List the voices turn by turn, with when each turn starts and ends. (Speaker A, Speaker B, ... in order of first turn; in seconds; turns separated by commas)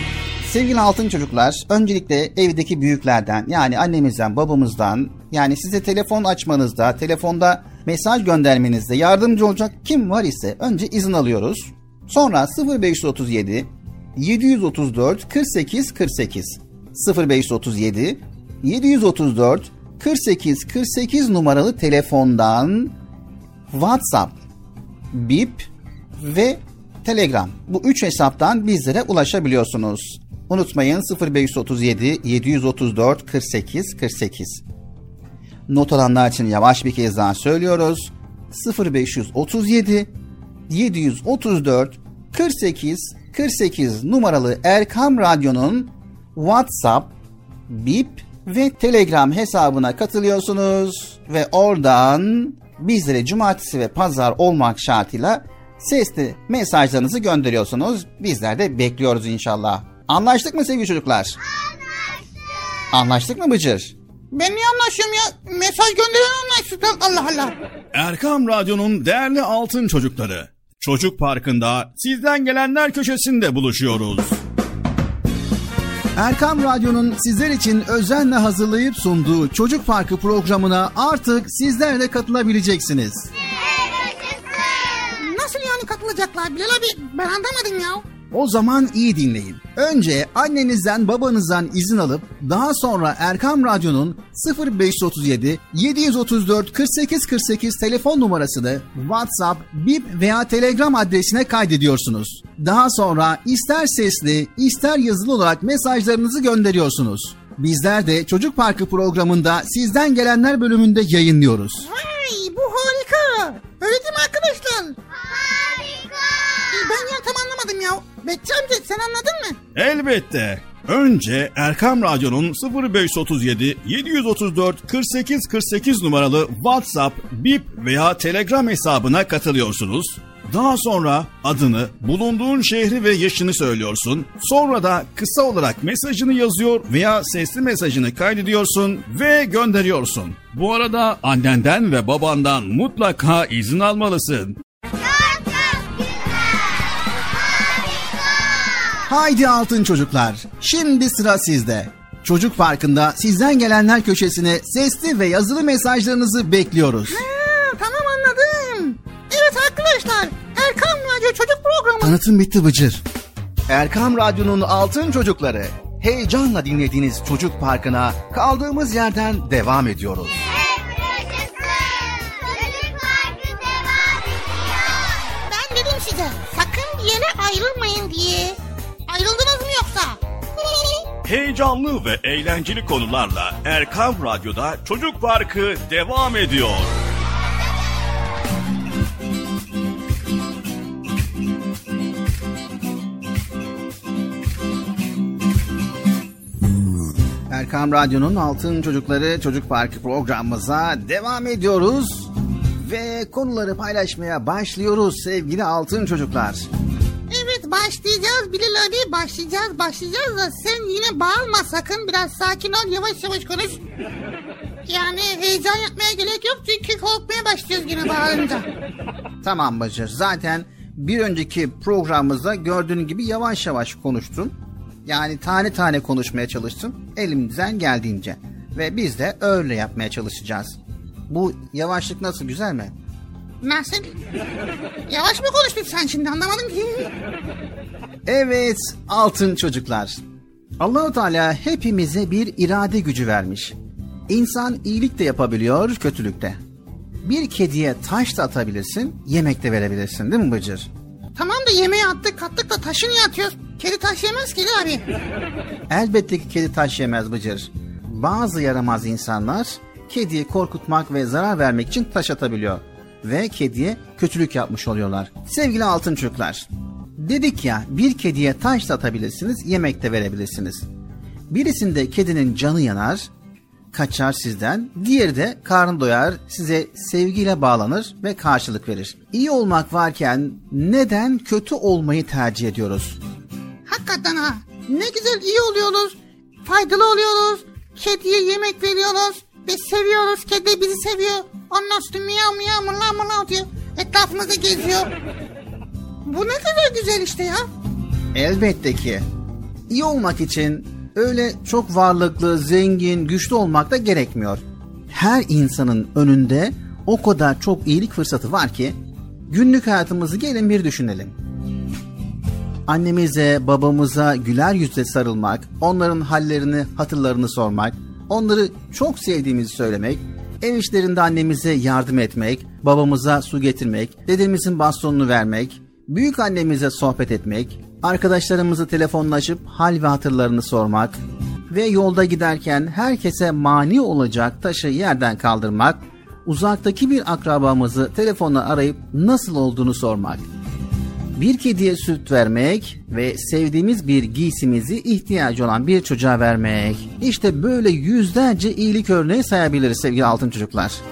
Speaker A: 0.4-22.9, Speaker A: 23.7-24.4, Speaker A: 25.1-34.6, Speaker A: 35.7-40.1, Speaker A: 40.7-47.1, Speaker A: 47.7-61.4, Speaker A: 62.9-63.9, Speaker B: 64.3-67.5, Speaker C: 67.9-74.4, Speaker A: 76.2-83.3, Speaker B: 85.2-88.0, Speaker A: 88.3-111.9, Speaker B: 111.8-115.0, Speaker D: 115.2-116.7, Speaker B: 116.7-119.6, Speaker C: 119.7-144.6, Speaker D: 145.1-146.1, Speaker A: 149.1-157.2, Speaker B: 157.1-162.2, Speaker A: 162.0-163.0, Speaker A: 163.7-170.4, Speaker D: 170.7-174.5, Speaker B: 175.5-178.6, Speaker B: 179.1-180.2, Speaker C: 181.2-187.0, Speaker A: 197.5-206.7, Speaker B: 207.3-213.8, Speaker B: 214.9-218.7, Speaker A: 219.4-230.8, Speaker A: 231.3-232.9, Speaker B: 233.6-234.1, Speaker B: 235.1-237.1, Speaker A: 238.2-240.2, Speaker A: 240.8-243.8, Speaker A: 244.3-246.6, Speaker A: 247.2-250.9, Speaker B: 251.3-255.0, Speaker A: 255.9-270.9, Speaker A: 271.5-273.3, Speaker A: 273.9-283.2, Speaker B: 283.9-295.1, Speaker B: 296.2-297.6, Speaker A: 298.3-299.2, Speaker A: 299.9-309.0, Speaker A: 309.5-311.3, Speaker A: 312.9-340.4, Speaker A: 341.4-351.0